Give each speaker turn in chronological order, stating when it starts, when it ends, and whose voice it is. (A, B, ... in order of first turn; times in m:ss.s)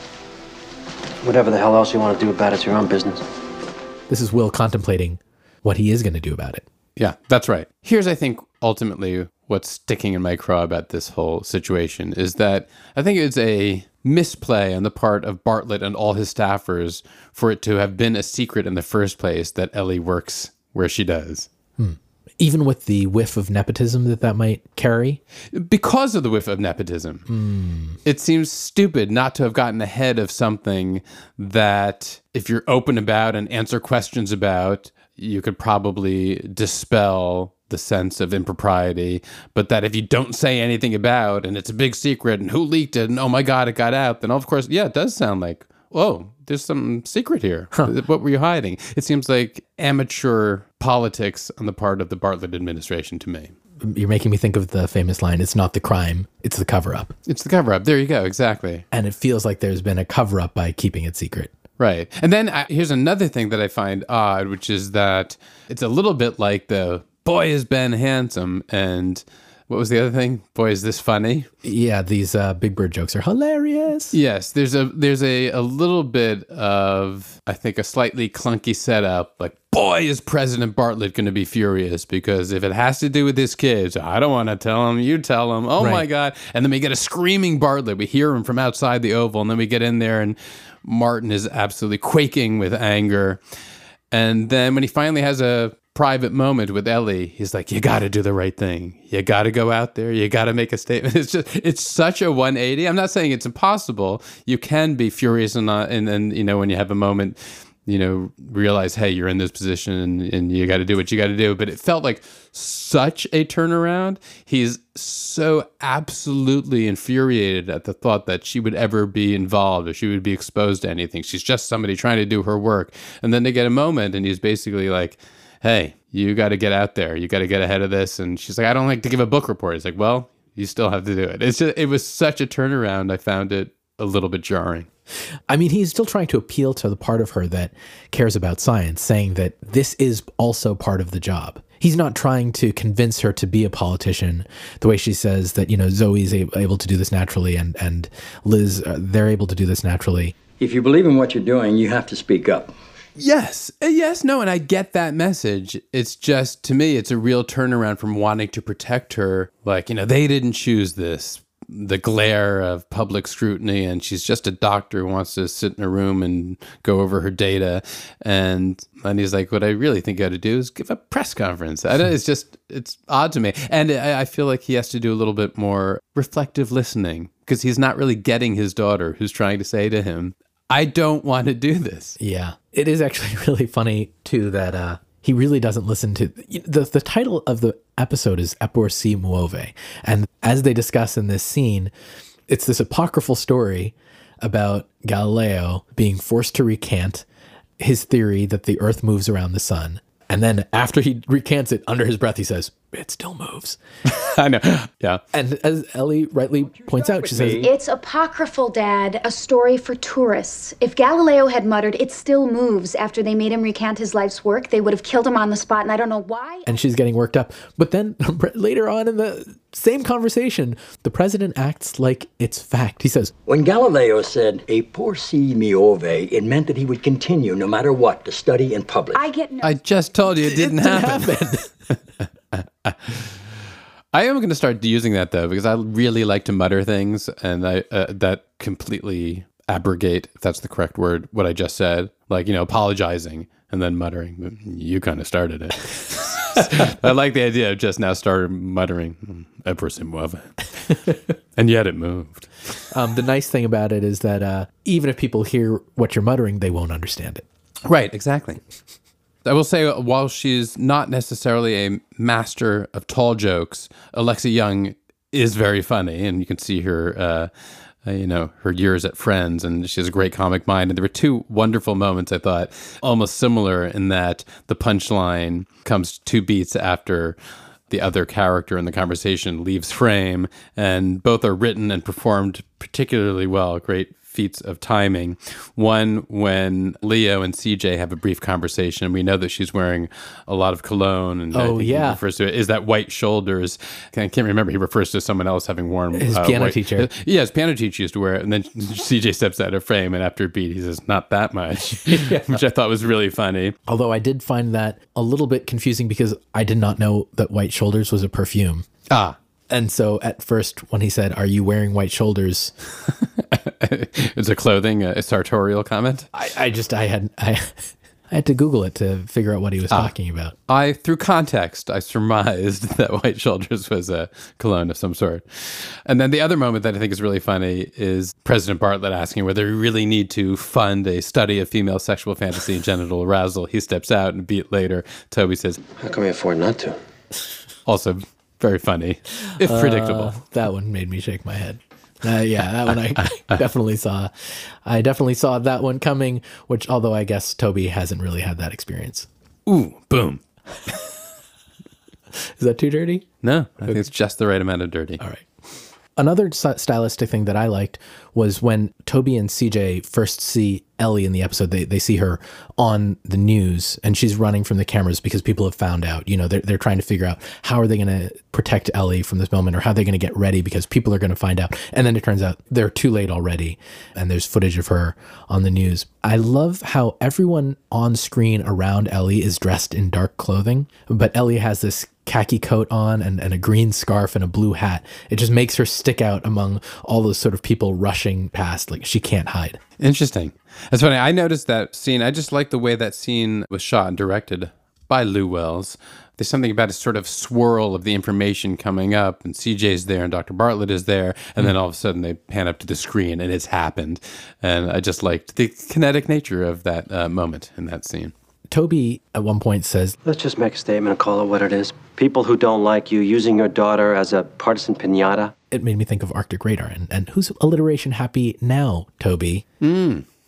0:01.2-0:03.3 A
0:04.1-0:06.6 B
0:07.0-0:21.5 C
0:21.8-0:25.2 B
0:25.5-0:27.2 C
0:27.3-0:28.0 B
0:28.0-0:53.5 C
0:53.8-0:57.1 B
0:57.3-0:58.8 C
0:58.9-1:01.5 B
1:01.8-1:11.5 C
1:11.6-1:14.2 B
1:14.1-1:33.4 C
1:25.8-1:26.0 B
1:34.1-2:14.9 C
2:15.5-2:30.4 B
2:30.6-2:32.7 D
2:33.2-3:02.2 C
3:02.2-3:11.9 B
3:12.5-3:17.2 B
3:17.8-3:23.8 B
3:24.1-3:25.2 C
3:25.3-3:27.6 B
3:26.6-3:27.7 D
3:27.6-3:36.8 E
3:36.7-3:43.3 B
3:43.5-3:49.2 D
3:49.1-3:50.4 E
3:49.6-3:51.6 C
3:50.4-3:51.7 B
3:52.6-3:53.3 C
3:54.1-4:10.7 C
4:11.6-4:12.8 C
4:12.9-4:17.4 B
4:17.9-4:18.6 C
4:19.4-4:27.5 C
4:28.0-4:37.4 C
4:37.9-5:03.8 C
4:51.5-4:52.2 B
4:56.1-4:57.1 B
5:02.1-5:02.6 B
5:03.9-5:08.9 B
5:09.1-5:09.4 C
5:09.7-5:12.7 B
5:13.5-5:16.3 C
5:16.3-5:20.6 B
5:20.7-5:35.8 C
5:36.0-5:37.0 A
5:37.9-5:40.4 C
5:39.6-5:44.3 B
5:44.8-5:49.3 B
5:49.7-5:50.4 C
5:52.6-5:53.3 B
5:53.4-5:55.2 C
5:56.2-6:29.8 B
6:30.0-6:48.3 C
6:48.7-6:50.2 B
6:50.2-6:55.5 A
6:55.7-6:59.6 B
6:59.8-7:00.2 C